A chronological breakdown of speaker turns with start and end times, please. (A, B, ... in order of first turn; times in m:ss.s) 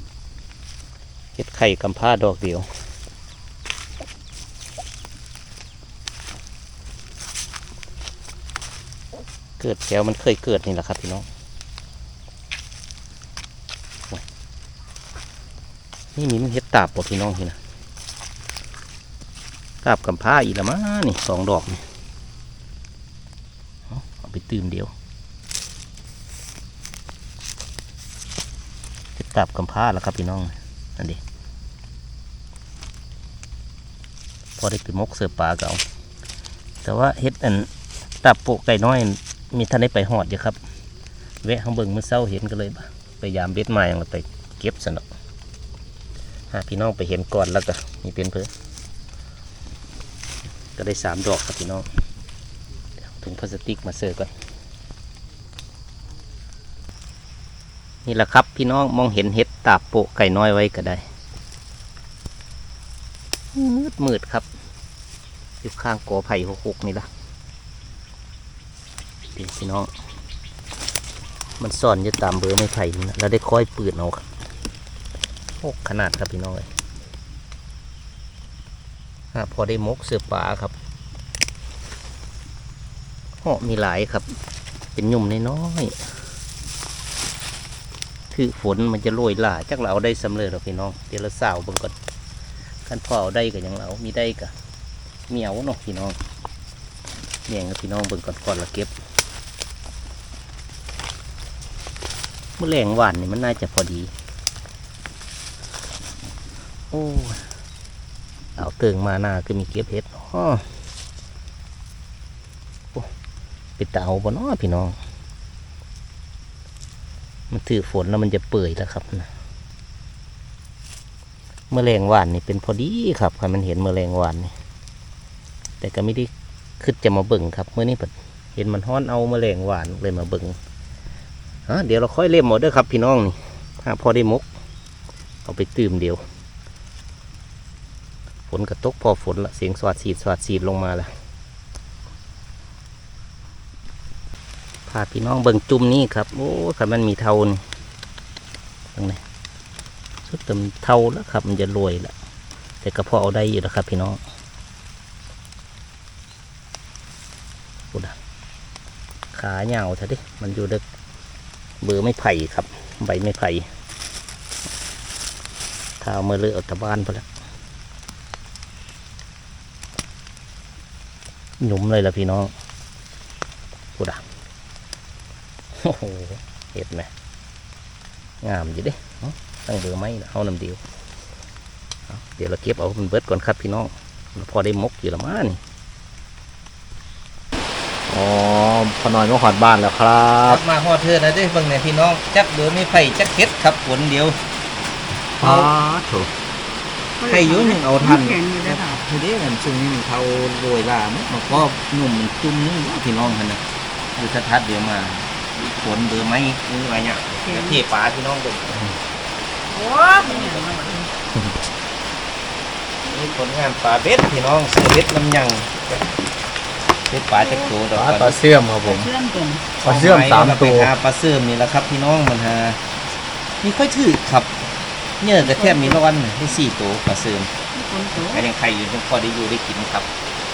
0:01.4-0:02.7 A
0:09.6-0:11.3 A
0:16.2-0:17.6 A
0:19.8-0:21.8 A
0:23.9-0:24.9 A
0:29.2-0:31.2 A
0:34.6-0:35.8 A
0:36.8-0:37.7 A
0:38.2-0:40.6 A
0:41.4-0:45.0 A
0:46.5-0:48.5 A
0:50.8-0:51.9 A
0:53.0-0:54.3 A
0:58.0-1:01.0 A
1:03.5-1:04.5 A
1:05.6-1:07.1 A
1:09.3-1:09.9 A
1:11.6-1:14.2 A
1:15.6-1:16.7 A
1:19.3-1:20.8 A
1:23.4-1:24.3 A
1:24.9-1:26.0 A
1:28.3-1:31.9 A
1:32.8-1:34.5 A
1:35.3-1:36.2 A
1:37.5-1:38.9 A
1:42.6-1:44.1 A
1:46.9-1:47.4 A
1:48.6-1:50.6 A
1:53.8-1:55.0 A
1:57.5-1:59.3 A
2:01.7-2:04.5 A
2:05.8-2:10.6 A
2:11.7-2:14.4 A
2:15.4-2:16.2 A
2:18.5-2:21.1 A
2:24.9-2:27.6 A
2:28.9-2:29.2 A
2:30.3-2:32.1 A
2:32.8-2:34.2 A
2:39.3-2:40.8 A
2:41.8-2:43.7 A
2:46.0-2:47.3 A
2:51.6-2:52.5 A
2:54.0-2:54.2 A
2:55.8-2:57.1 A
2:58.4-3:00.8 A
3:02.1-3:05.6 A
3:08.1-3:10.6 B
3:10.3-3:14.4 A
3:15.4-3:16.3 A
3:15.4-3:15.8 B
3:17.2-3:19.0 C
3:17.2-3:23.6 A
3:24.2-3:28.9 A
3:27.4-3:27.8 C
3:29.7-3:31.1 C
3:30.0-3:30.7 A
3:33.0-3:35.8 A
3:37.1-3:38.6 A
3:37.4-3:37.7 C
3:37.9-3:39.1 B
3:38.7-3:39.8 C
3:39.8-3:42.8 A
3:39.8-3:40.9 B
3:43.6-3:44.6 A
3:45.2-3:47.5 A
3:45.4-3:46.0 C
3:47.7-3:48.5 C
3:48.2-3:50.1 A